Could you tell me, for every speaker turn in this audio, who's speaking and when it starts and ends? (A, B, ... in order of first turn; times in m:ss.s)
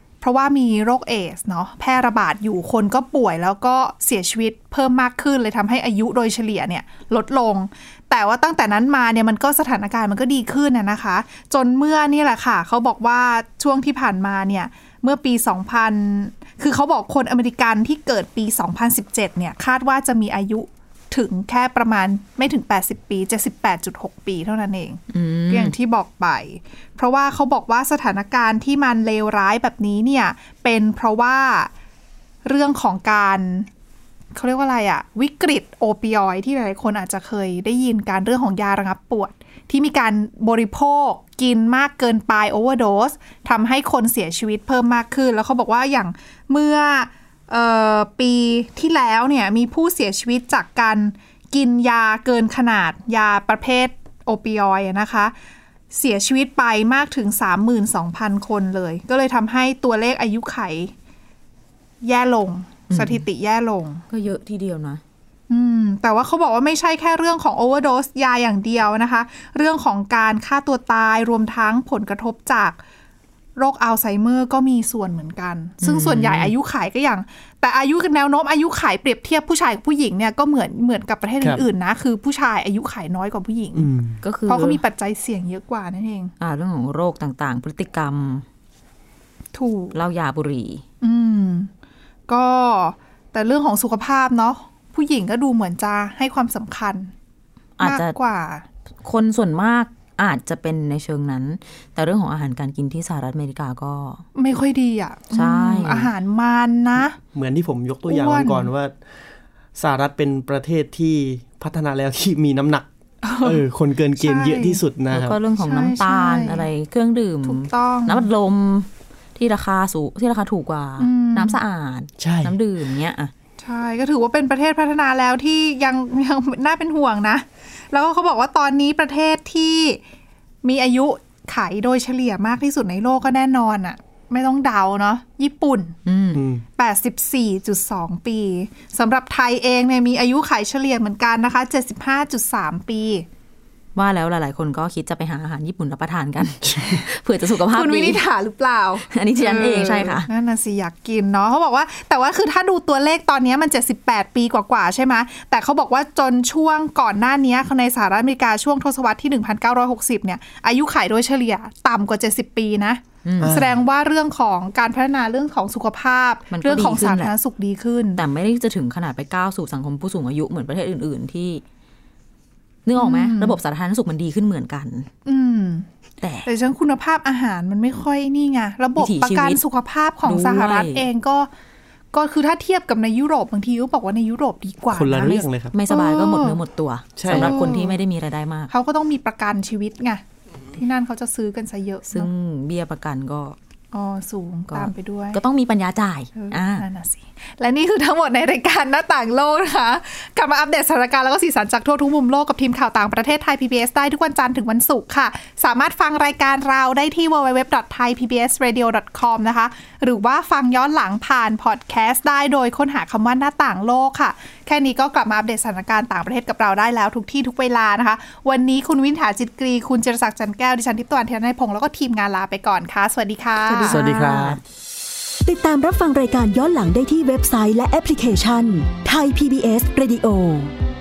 0:00.2-0:31.7 A
0:25.1-0:25.7 B
0:32.4-0:33.7 A
0:34.4-0:55.3 A
0:55.9-1:00.9 A
1:02.0-1:04.0 A
1:02.9-1:03.2 B
1:04.1-1:05.0 B
1:05.5-1:12.8 A
1:13.6-1:23.9 A
1:15.8-1:16.5 B
1:23.8-1:24.2 C
1:24.2-1:24.8 B
1:24.5-1:26.3 A
1:26.4-1:28.4 B
1:29.5-1:30.0 A
1:29.9-1:30.8 B
1:31.0-1:31.7 A
1:32.3-1:37.1 A
1:37.8-1:38.2 B
1:37.8-1:38.6 A
1:39.0-1:44.2 B
1:44.4-1:47.2 A
1:45.3-1:46.1 B
1:47.3-1:48.9 C
1:48.1-1:48.7 A
1:49.8-1:52.9 C
1:53.2-1:53.6 A
1:53.4-1:55.4 C
1:54.2-1:54.8 A
1:55.1-2:03.3 B
1:55.6-1:56.7 A
1:57.4-1:58.3 A
2:01.0-2:01.6 A
2:02.2-2:02.5 C
2:03.6-2:10.0 A
2:10.6-2:15.9 A
2:16.0-2:16.4 B
2:16.4-2:16.6 C
2:16.8-2:23.3 A
2:23.9-2:28.2 B
2:27.6-2:48.2 A
2:29.1-2:30.3 B
2:43.2-2:43.6 B
2:43.4-2:43.8 C
2:46.5-2:47.3 B
2:48.2-2:51.6 B
2:52.8-2:55.1 B
2:53.0-2:53.6 A
2:55.3-2:55.9 A
2:56.2-2:56.5 B
2:56.4-3:01.5 A
2:59.0-2:59.6 B
3:00.2-3:01.1 B
3:02.1-3:06.6 A
3:04.9-3:05.7 C
3:05.7-3:08.7 B
3:07.2-3:07.6 C
3:07.3-3:08.0 A
3:08.7-3:10.2 A
3:10.8-3:12.3 A
3:12.1-3:13.6 B
3:13.9-3:15.4 A
3:14.7-3:16.9 B
3:16.4-3:44.0 A
3:43.7-3:44.6 B
3:43.9-3:44.6 C
3:45.4-3:50.7 D